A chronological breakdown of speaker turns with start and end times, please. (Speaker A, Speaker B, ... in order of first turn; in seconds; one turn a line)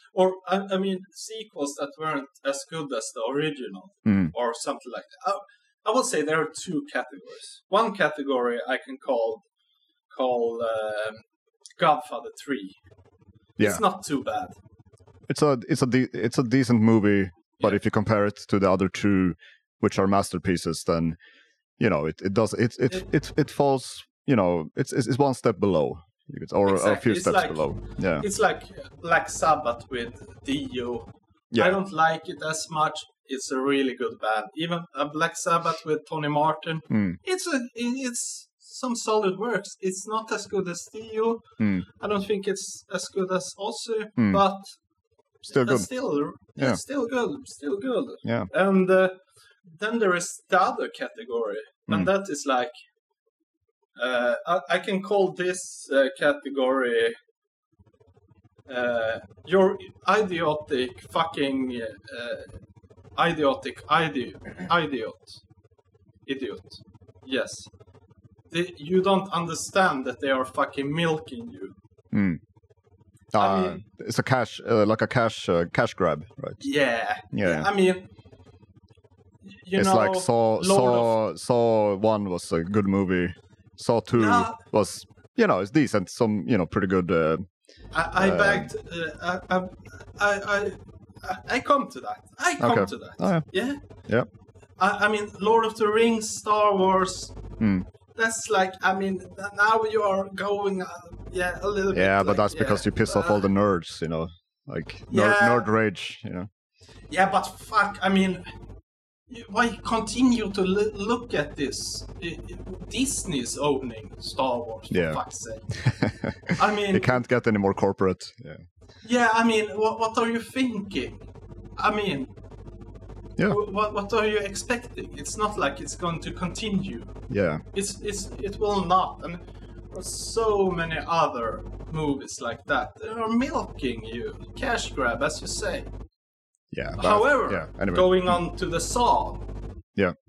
Speaker A: 0.1-9.4
Speaker B: 4.0-4.3
Speaker A: 10.1-11.2
Speaker A: 11.8-12.8
Speaker B: 13.6-13.8
Speaker A: 13.6-14.6
Speaker B: 15.3-21.2
Speaker B: 21.8-28.3
Speaker A: 26.7-44.7
Speaker B: 31.5-31.8
Speaker B: 36.9-37.2
Speaker B: 41.6-41.9
Speaker B: 44.2-44.4
Speaker B: 45.5-45.9
Speaker A: 45.5-52.7
Speaker A: 54.0-57.2
Speaker A: 58.7-62.5
Speaker A: 63.2-65.4
Speaker A: 66.3-67.7
Speaker A: 68.5-71.8
Speaker B: 72.1-72.4
Speaker B: 73.3-76.6
Speaker A: 73.4-73.8
Speaker A: 76.6-78.1
Speaker B: 77.3-77.7
Speaker A: 79.5-81.1
Speaker B: 79.8-87.5
Speaker A: 84.2-84.6
Speaker A: 87.9-93.8
Speaker B: 88.2-88.7
Speaker B: 92.6-93.5
Speaker A: 94.8-97.4
Speaker B: 97.6-97.9
Speaker A: 98.2-103.5
Speaker B: 101.9-106.5
Speaker A: 105.1-105.7
Speaker A: 107.1-108.4
Speaker A: 109.3-115.7
Speaker B: 114.9-115.2
Speaker B: 115.7-118.6
Speaker A: 116.6-117.2
Speaker A: 119.0-121.2
Speaker A: 121.8-122.3
Speaker A: 123.5-127.2
Speaker B: 127.3-127.6
Speaker A: 127.7-135.9
Speaker B: 136.7-138.4
Speaker A: 137.0-139.5